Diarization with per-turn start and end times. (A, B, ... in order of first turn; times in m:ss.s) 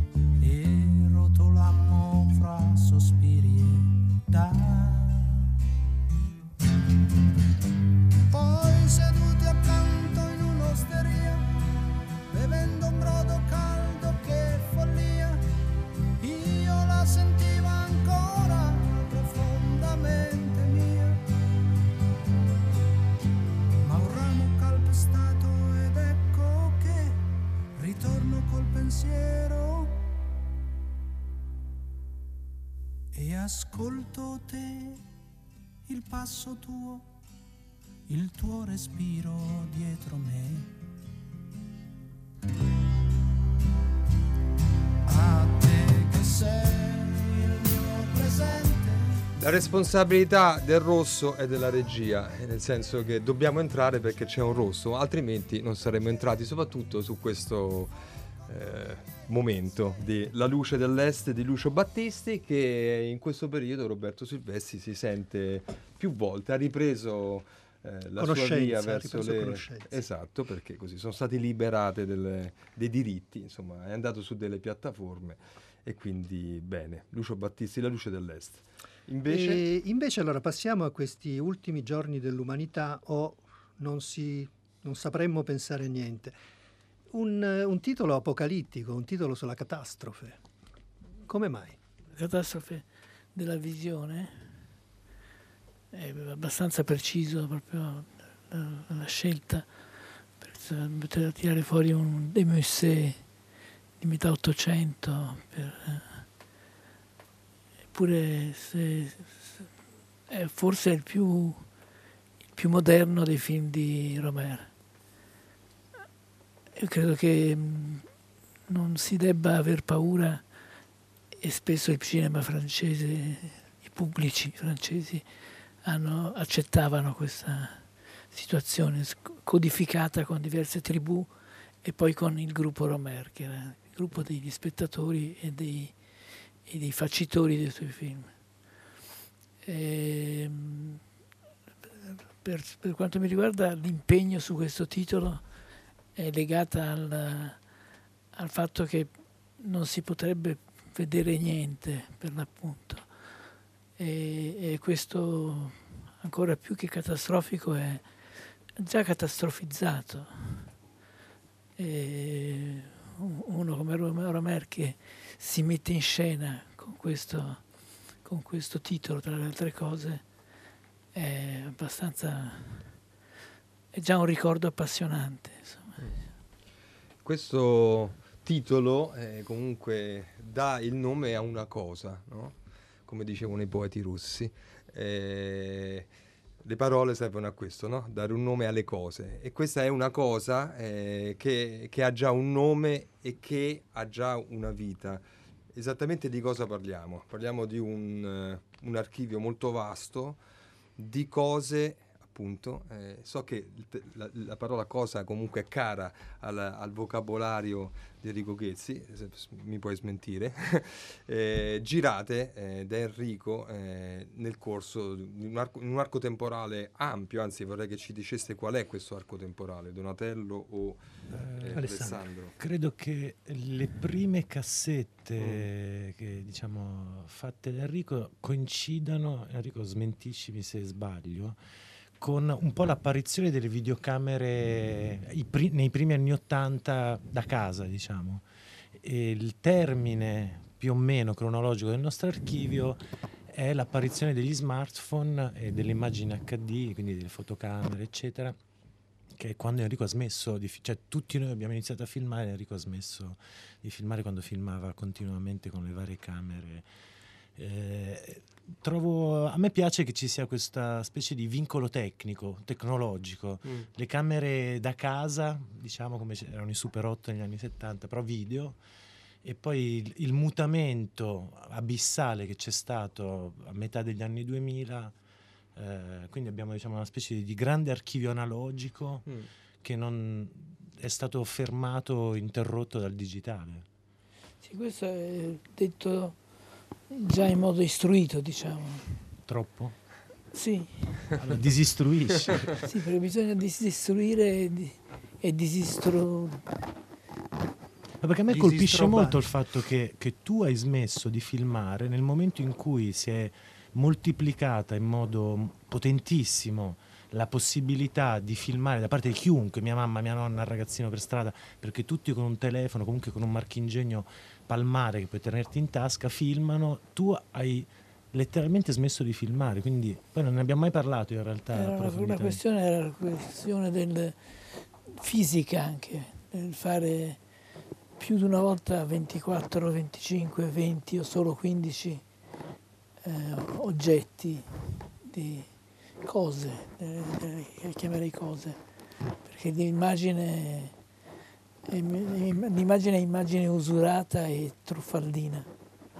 0:00.4-0:05.5 A
0:08.3-0:11.6 A
0:12.3-0:15.4 A
0:16.2-0:21.2 A
0:23.8-0:27.2 A
0:27.7-0:30.1 A
0:33.1-0:35.1 A
0:35.9-0:37.2 A
0:38.1-0:40.7 A
0:45.0-0:49.2 A
0:49.4-0:57.9 B
0:58.4-1:19.6 B
1:08.2-1:09.9 C
1:19.3-1:26.3 C
1:27.1-1:30.4 C
1:31.2-1:31.8 C
1:32.1-1:34.6 D
1:35.9-1:39.8 D
1:40.4-1:43.3 D
1:44.0-1:46.3 D
1:47.9-1:49.7 D
1:50.3-1:51.7 D
1:52.5-1:54.7 D
1:56.8-1:58.1 D
1:58.7-2:00.5 D
2:01.4-2:18.3 D
2:19.6-2:21.0 D
2:22.0-2:25.5 D
2:26.1-2:27.6 D
2:28.3-2:33.3 D
2:34.0-2:40.7 D
2:41.8-2:50.3 D
2:51.1-2:53.0 D
2:53.9-2:56.2 D
2:57.2-3:06.1 B
3:06.6-3:20.4 B
3:21.0-3:42.5 B
3:41.7-3:42.2 C
3:42.6-3:51.6 E
3:45.4-3:45.7 B
3:52.2-4:08.6 E
4:09.4-4:16.9 E
4:17.6-4:28.8 E
4:29.4-4:35.1 E
4:35.7-4:43.8 E
4:44.6-4:46.4 D
4:47.1-4:49.2 D
4:49.4-4:50.0 E
4:50.5-4:51.3 D
4:51.3-4:52.8 E
4:52.8-4:56.7 D
4:58.2-5:22.6 E
4:58.5-4:59.4 C
5:21.7-5:27.4 D
5:28.2-5:32.2 D
5:33.2-5:38.8 D
5:39.4-5:41.0 D
5:41.9-5:45.7 D